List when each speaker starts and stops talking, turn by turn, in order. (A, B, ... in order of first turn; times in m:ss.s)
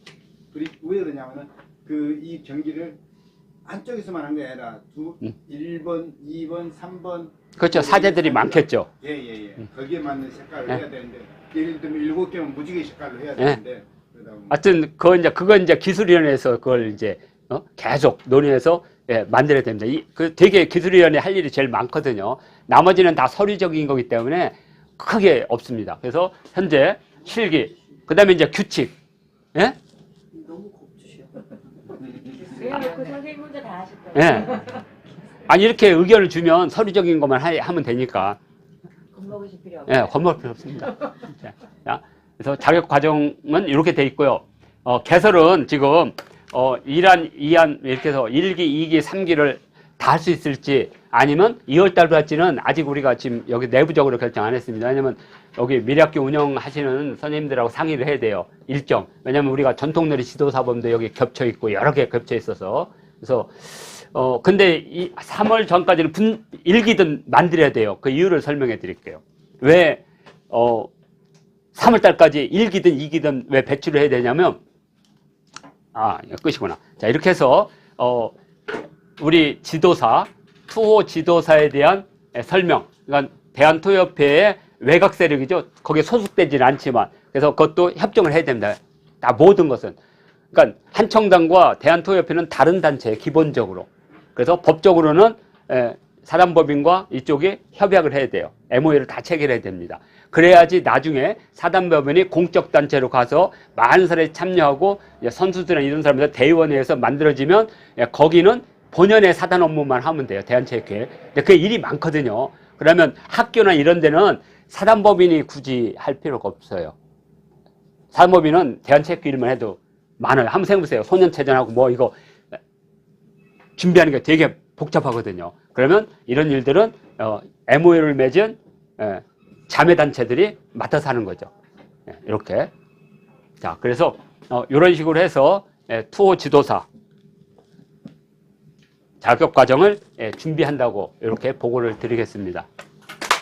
0:00.5-0:03.0 A
0:03.6-0:14.6 A
0:07.6-0:08.9 B
0:14.5-0:28.9 B
0:30.4-0:31.3 C
0:32.2-0:34.8 C
0:34.1-0:34.7 B
0:35.4-0:38.4 B
0:39.1-0:40.0 C
0:39.9-1:10.9 B
1:11.7-1:14.6 B
1:15.9-1:18.3 B
1:19.2-1:30.0 B
1:30.5-1:56.9 B
1:58.1-2:02.1 B
2:03.8-2:11.5 B
2:12.1-2:12.7 B
2:13.6-2:16.8 B
2:19.2-2:22.6 B